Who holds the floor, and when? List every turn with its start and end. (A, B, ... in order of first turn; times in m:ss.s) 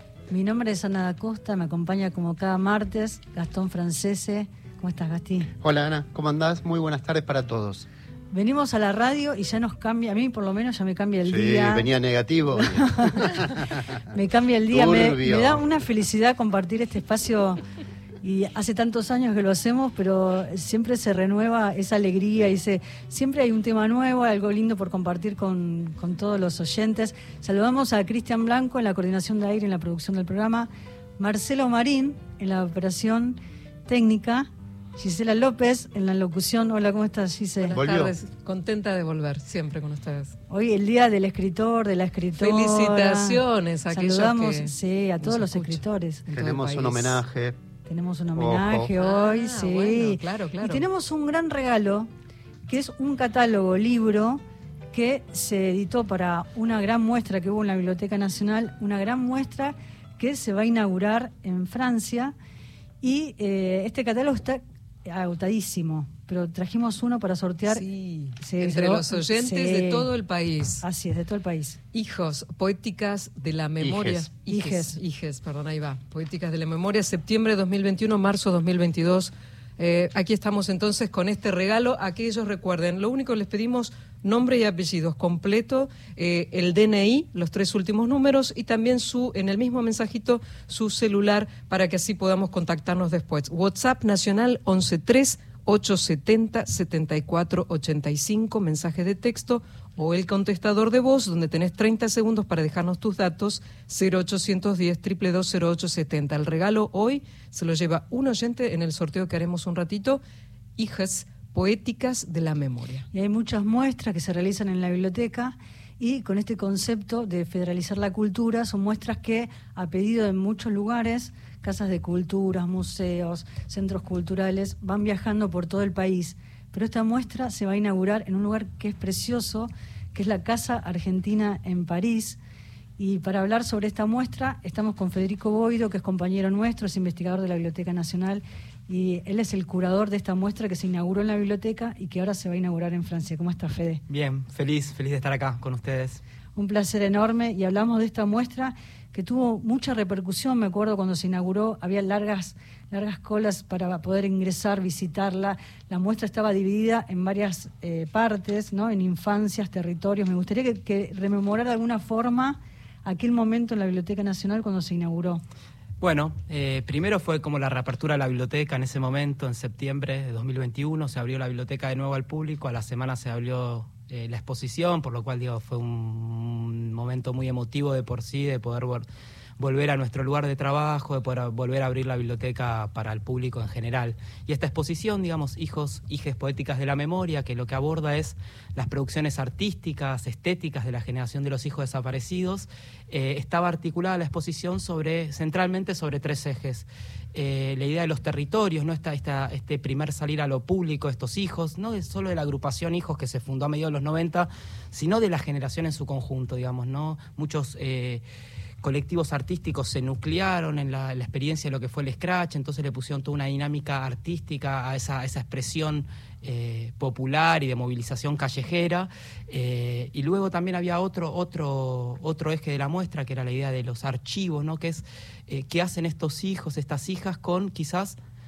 0:00.3-0:05.5 A
0:05.6-0:07.9 B
0:08.3-0:11.8 A
0:11.2-0:14.0 B
0:12.9-0:13.2 A
0:14.1-0:17.6 A
0:14.7-0:15.6 B
0:18.2-0:37.8 A
0:37.6-0:40.3 C
0:37.7-0:38.1 B
0:40.5-0:46.2 A
0:42.3-0:47.2 C
0:46.3-0:47.6 B
0:47.8-0:52.1 A
0:48.4-0:48.9 B
0:49.0-0:50.8 C
0:52.7-1:02.3 A
1:03.0-1:07.8 A
1:07.7-1:10.8 C
1:08.4-1:10.1 A
1:10.8-1:11.8 A
1:11.9-1:50.2 C
1:13.8-1:14.3 B
1:14.5-1:15.0 A
1:50.8-1:53.1 C
1:53.1-2:12.4 A
2:13.0-2:24.0 A
2:24.1-2:26.2 D
2:26.5-2:45.4 A
2:46.0-2:59.0 D
2:59.6-3:28.2 D
3:28.8-3:48.2 D